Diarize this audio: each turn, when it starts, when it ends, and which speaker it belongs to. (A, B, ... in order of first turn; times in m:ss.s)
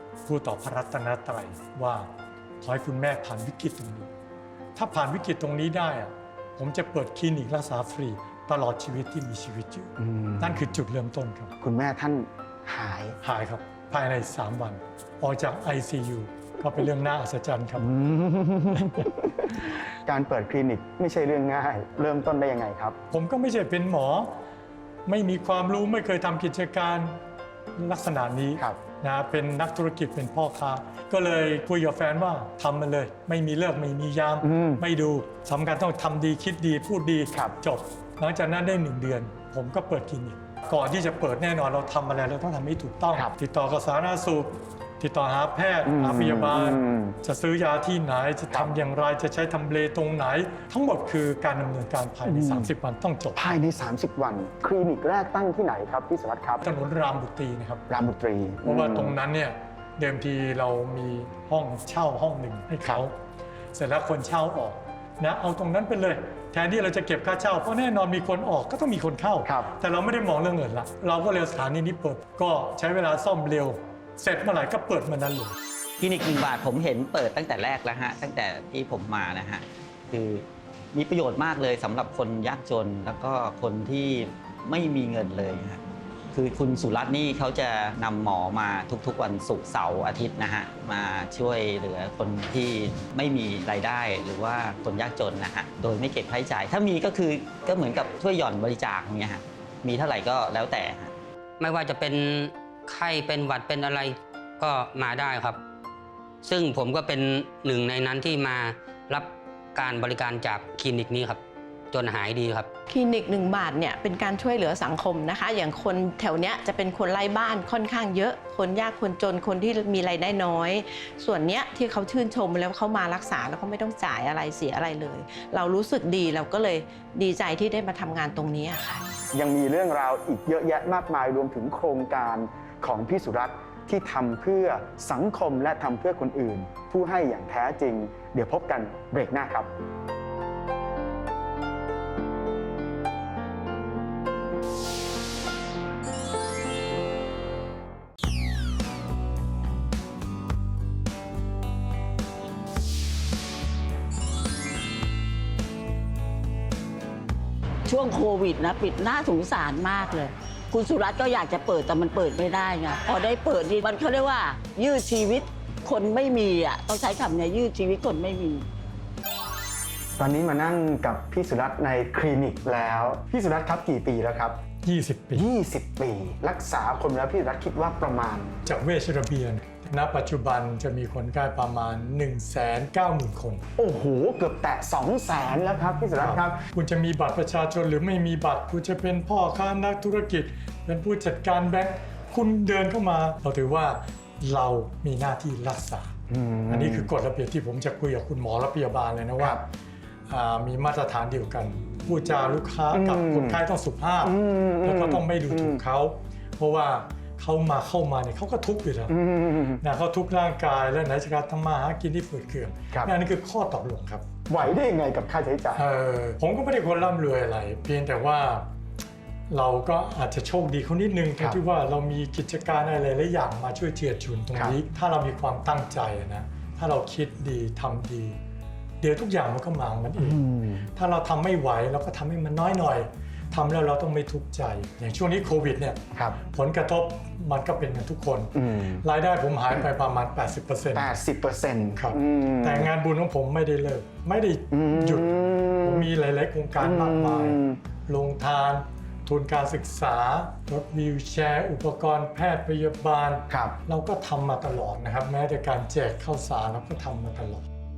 0:00.2-0:02.1 A
0:02.6-0:04.1 A
0:04.8-0:11.5 A
0:10.0-0:10.7 B
0:11.6-0:13.2 B
0:13.2-0:17.9 A
0:17.8-0:23.0 B
0:23.1-0:24.3 A
0:25.1-0:27.2 A
0:27.8-0:53.6 A
0:34.4-0:34.8 B
0:45.9-0:47.2 B
0:52.3-0:52.7 B
0:53.4-0:56.6 B
0:56.6-0:57.8 A
0:57.9-0:59.1 B
0:58.6-1:03.2 A
1:03.7-1:15.6 A
1:09.5-1:09.7 B
1:16.0-1:25.8 C
1:26.3-1:41.1 C
1:41.6-1:45.6 D
1:46.4-1:51.4 D
1:51.9-1:52.7 D
1:52.9-2:09.0 E
2:09.3-2:19.7 B
2:37.9-2:48.6 F
2:50.2-2:54.6 B
2:54.8-2:55.4 A
2:55.4-2:58.6 B
2:58.6-3:03.6 A
3:03.8-3:06.6 B
3:06.2-3:16.1 A
3:16.3-3:17.1 B
3:16.7-3:19.6 A
3:20.3-3:29.2 A
3:22.9-3:23.6 B
3:24.2-3:25.8 B
3:29.1-3:29.8 B
3:29.8-3:34.3 A
3:34.5-3:35.9 B
3:35.8-3:38.7 A
3:39.5-3:48.4 A
3:49.0-3:50.4 A
3:50.2-3:50.9 B
3:51.0-4:01.1 A
3:56.1-3:56.4 B
3:58.6-3:59.0 B
4:01.0-4:02.9 B
4:02.0-4:17.6 A
4:04.7-4:06.1 B
4:06.8-4:07.8 B
4:13.5-4:13.8 B